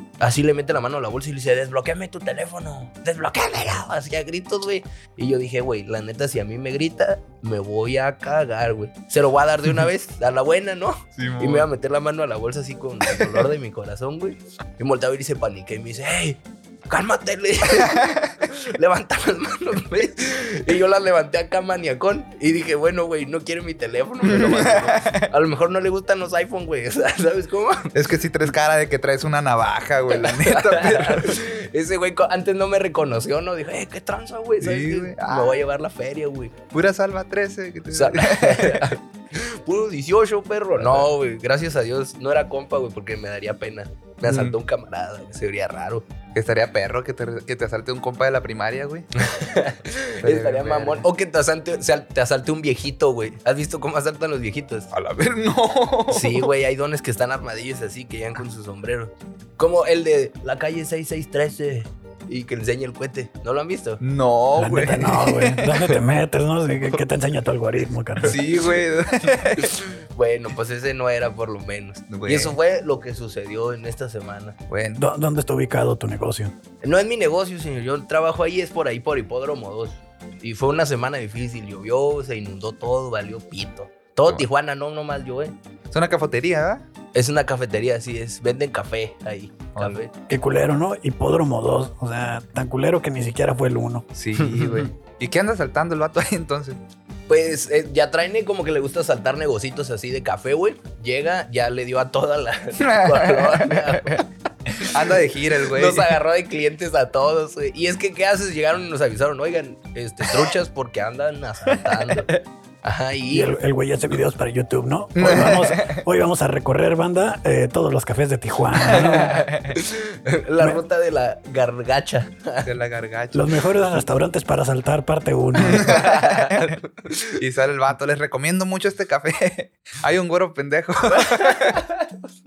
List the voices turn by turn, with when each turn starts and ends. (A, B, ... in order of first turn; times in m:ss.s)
0:00.2-0:27.9 A
0:11.2-0:11.7 B
0:13.0-0:13.4 B
0:17.7-0:18.3 B
0:24.2-0:25.2 B
0:27.9-0:31.4 B
0:30.1-0:36.5 A
0:34.6-0:35.6 B
0:36.7-0:38.9 B
0:37.9-0:46.0 A
0:40.8-0:41.1 B
0:44.2-0:44.6 B
0:46.3-0:49.1 B
0:49.1-0:54.9 A
0:50.2-0:51.0 B
0:54.9-0:56.5 B
0:56.1-1:04.0 A
1:04.0-1:06.0 B
1:04.6-1:08.4 C
1:08.2-1:09.8 B
1:10.1-1:14.6 A
1:12.1-1:12.6 B
1:14.7-1:15.0 B
1:15.0-1:16.5 C
1:16.8-1:25.5 A
1:25.9-1:26.8 B
1:27.1-1:30.1 A
1:30.3-1:34.0 C
1:34.1-1:36.8 B
1:34.4-1:34.9 A
1:37.3-1:44.2 A
1:42.8-1:46.2 B
1:44.8-1:52.3 A
1:51.7-1:52.4 B
1:52.8-1:53.5 A
1:53.3-1:59.4 C
1:55.2-1:56.0 B
1:58.8-1:59.8 B
1:58.8-2:02.7 A
2:02.6-2:03.5 B
2:03.3-2:06.0 C
2:05.6-2:06.7 B
2:05.6-2:07.4 A
2:07.4-2:11.8 B
2:11.2-2:12.0 A